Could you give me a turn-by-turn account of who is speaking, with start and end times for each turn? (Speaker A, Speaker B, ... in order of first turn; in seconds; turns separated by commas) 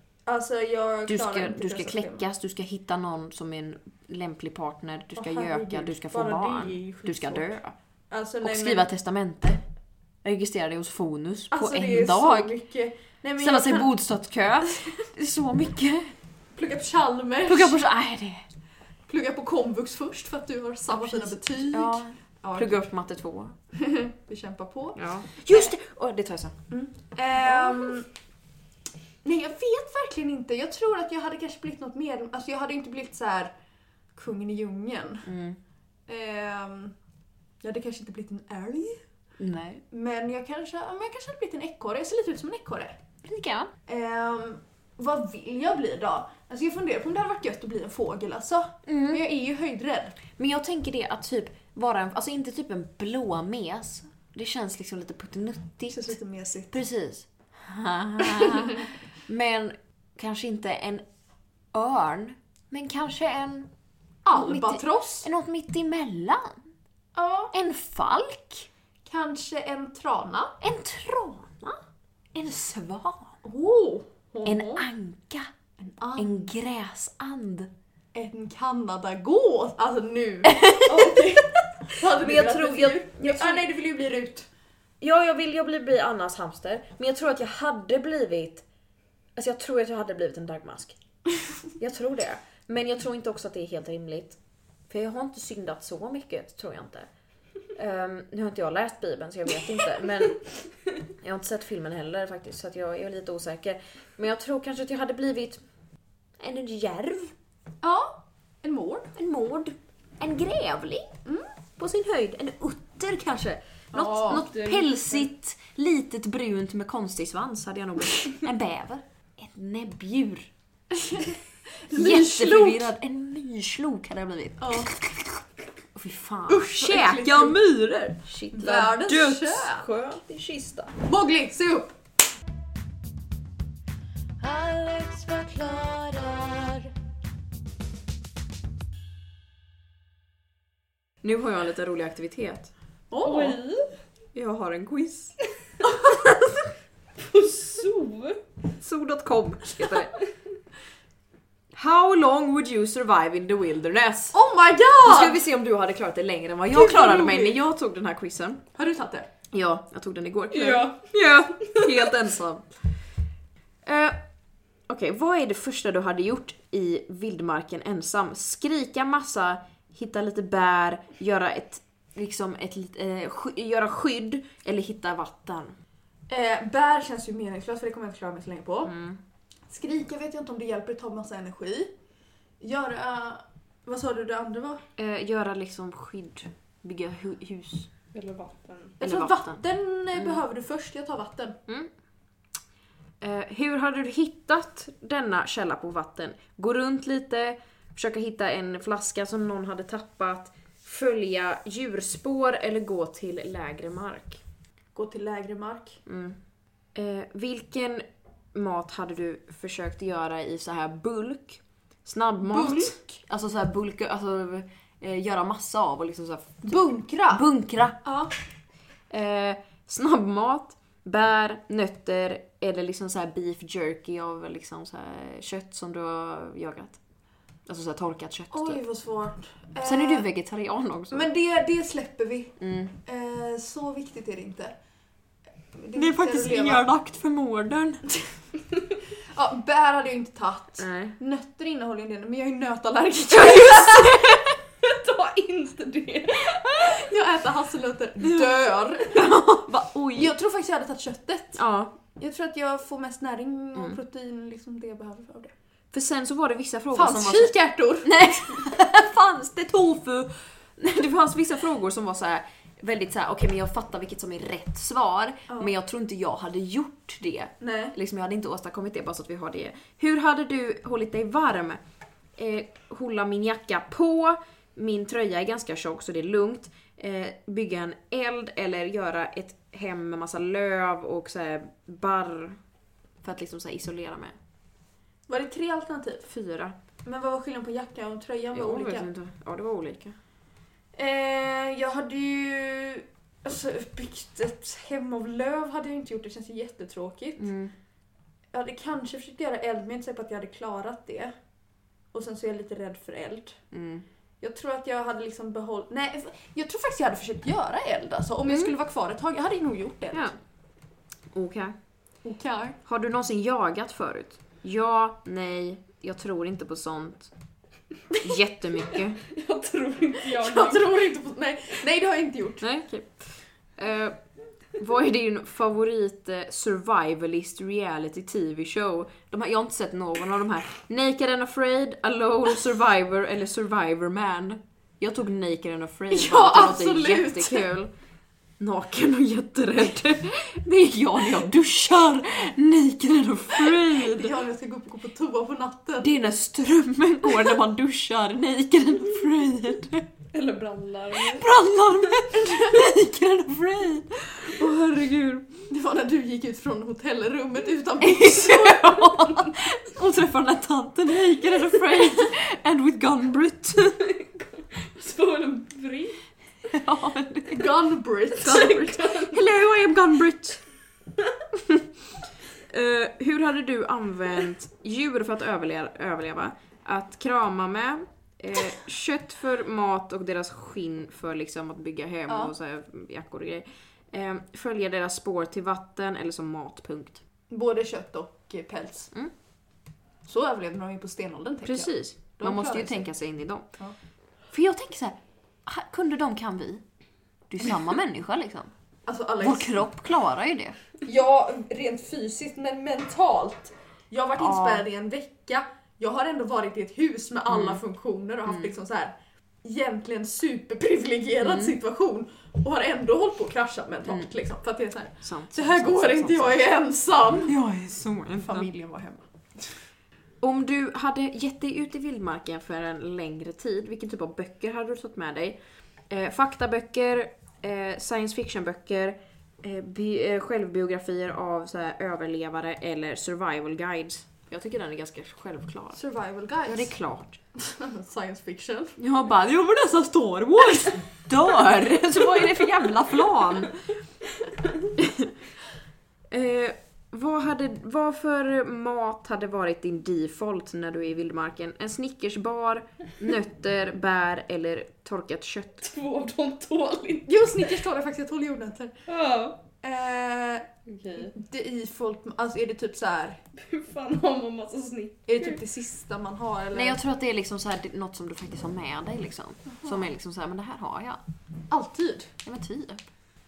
Speaker A: 0.2-2.2, Speaker B: 1.1-7.7, Speaker A: 5.2-7.5, Speaker A: 8.1-8.9, Speaker B: 8.4-9.6, Speaker B: 10.2-12.5, Speaker A: 11.5-13.9, Speaker B: 13.4-16.1, Speaker A: 14.7-14.9, Speaker A: 16.5-17.8, Speaker B: 17.4-18.4, Speaker A: 19.1-22.8, Speaker B: 21.0-23.6, Speaker A: 23.7-25.7, Speaker B: 24.9-26.5, Speaker A: 26.7-28.1, Speaker B: 27.4-27.9, Speaker A: 29.2-33.5, Speaker A: 34.1-35.3, Speaker B: 35.2-35.6, Speaker A: 36.1-36.9, Speaker A: 37.6-39.0, Speaker B: 39.4-39.8, Speaker A: 39.9-43.0, Speaker B: 43.2-43.7, Speaker A: 43.9-50.1, Speaker B: 48.9-49.2, Speaker B: 50.4-56.1, Speaker A: 55.9-56.7, Speaker B: 56.7-61.0, Speaker B: 61.7-63.7, Speaker A: 64.2-65.3, Speaker B: 64.3-66.7, Speaker A: 67.1-67.5, Speaker B: 67.5-68.7, Speaker A: 69.0-70.5, Speaker B: 70.6-71.8, Speaker B: 72.3-73.3, Speaker A: 73.4-74.8, Speaker B: 74.4-75.5, Speaker A: 75.8-76.5, Speaker B: 76.2-77.7, Speaker A: 78.1-84.5, Speaker B: 80.5-81.2, Speaker B: 82.1-83.7, Speaker B: 85.0-88.6, Speaker B: 89.3-91.0, Speaker B: 91.8-94.4, Speaker B: 94.9-97.1, Speaker B: 97.7-100.4, Speaker B: 101.2-105.6, Speaker B: 106.4-107.3, Speaker A: 107.8-109.1, Speaker B: 109.2-111.1, Speaker B: 111.8-120.5, Speaker A: 113.9-114.5, Speaker C: 114.3-115.2, Speaker A: 120.9-122.9, Speaker B: 121.9-125.4, Speaker A: 124.6-124.9, Speaker B: 125.9-130.9, Speaker A: 126.5-127.6, Speaker A: 128.5-129.8, Speaker A: 131.0-131.9, Speaker C: 134.4-136.9, Speaker B: 141.2-142.7, Speaker A: 143.1-143.6, Speaker C: 143.2-143.9, Speaker B: 144.3-145.3, Speaker B: 145.9-146.7, Speaker C: 147.2-148.4, Speaker B: 148.8-150.2, Speaker B: 151.7-154.4, Speaker A: 154.3-155.4, Speaker B: 155.0-158.6, Speaker A: 156.7-157.6, Speaker A: 158.7-159.3, Speaker B: 159.5-162.7, Speaker C: 160.5-162.1, Speaker B: 163.8-164.2, Speaker B: 164.9-175.8, Speaker A: 176.3-178.9, Speaker B: 178.8-179.2, Speaker A: 179.7-181.9, Speaker A: 182.6-184.8, Speaker B: 185.0-187.9, Speaker C: 188.1-189.0, Speaker B: 189.0-189.6, Speaker A: 189.0-191.6, Speaker B: 193.2-204.4, Speaker A: 204.9-206.0, Speaker B: 206.1-206.4, Speaker B: 206.9-218.0, Speaker A: 212.5-213.2, Speaker A: 216.7-217.4, Speaker A: 218.0-218.3, Speaker B: 219.1-227.0, Speaker B: 227.7-228.8, Speaker A: 228.5-230.3, Speaker B: 229.8-231.3, Speaker A: 231.1-234.8, Speaker B: 232.6-232.9, Speaker A: 235.7-236.8, Speaker B: 235.9-238.0, Speaker A: 239.3-244.4, Speaker B: 240.8-241.2, Speaker B: 243.3-244.4, Speaker C: 244.8-247.0, Speaker A: 246.8-249.2, Speaker B: 249.1-250.3, Speaker A: 250.1-251.6, Speaker B: 251.6-251.9, Speaker A: 252.2-255.5, Speaker B: 255.9-271.8, Speaker A: 256.9-258.6, Speaker A: 267.6-267.9, Speaker B: 272.4-282.6, Speaker B: 283.2-284.4, Speaker A: 285.3-286.3, Speaker B: 286.3-286.7, Speaker A: 287.0-289.1, Speaker B: 288.5-290.1, Speaker A: 290.9-297.5, Speaker B: 297.4-297.7, Speaker A: 298.5-301.3, Speaker A: 302.1-303.6, Speaker B: 303.7-304.0, Speaker A: 304.4-310.3, Speaker B: 311.3-311.7, Speaker A: 312.2-312.8, Speaker B: 312.9-317.3, Speaker B: 318.2-319.2, Speaker C: 319.2-321.1, Speaker A: 320.3-322.6, Speaker B: 322.6-324.2, Speaker B: 324.7-337.9, Speaker A: 336.1-337.7, Speaker B: 338.6-344.3, Speaker A: 343.7-346.1, Speaker B: 346.0-350.1, Speaker C: 350.3-351.5, Speaker B: 351.3-355.5, Speaker A: 352.3-352.8, Speaker A: 355.7-359.1, Speaker B: 358.0-364.0, Speaker C: 364.0-366.2, Speaker B: 366.7-367.7, Speaker A: 367.5-369.0, Speaker B: 368.4-370.6, Speaker C: 368.4-369.4, Speaker B: 372.7-387.2, Speaker A: 382.3-382.5, Speaker A: 387.5-389.1, Speaker A: 390.2-393.1, Speaker B: 391.6-393.7, Speaker B: 394.5-396.8, Speaker B: 397.5-398.7, Speaker A: 399.1-399.8, Speaker B: 399.4-400.8, Speaker A: 401.0-417.5, Speaker B: 404.4-404.8, Speaker B: 407.5-407.8, Speaker B: 408.5-408.7, Speaker B: 411.4-411.8, Speaker B: 415.2-416.6, Speaker B: 417.4-418.7, Speaker A: 418.4-419.7, Speaker B: 420.4-425.6, Speaker B: 426.1-436.0, Speaker A: 435.9-436.9, Speaker B: 436.6-437.4, Speaker A: 437.6-439.0, Speaker B: 439.0-443.8, Speaker B: 445.0-445.3, Speaker B: 446.3-455.8, Speaker C: 455.8-457.7, Speaker A: 457.3-458.9, Speaker C: 459.1-459.6, Speaker A: 459.8-463.4, Speaker C: 463.6-465.6, Speaker A: 465.3-467.0, Speaker B: 466.7-471.2, Speaker A: 471.7-472.3, Speaker B: 472.4-473.1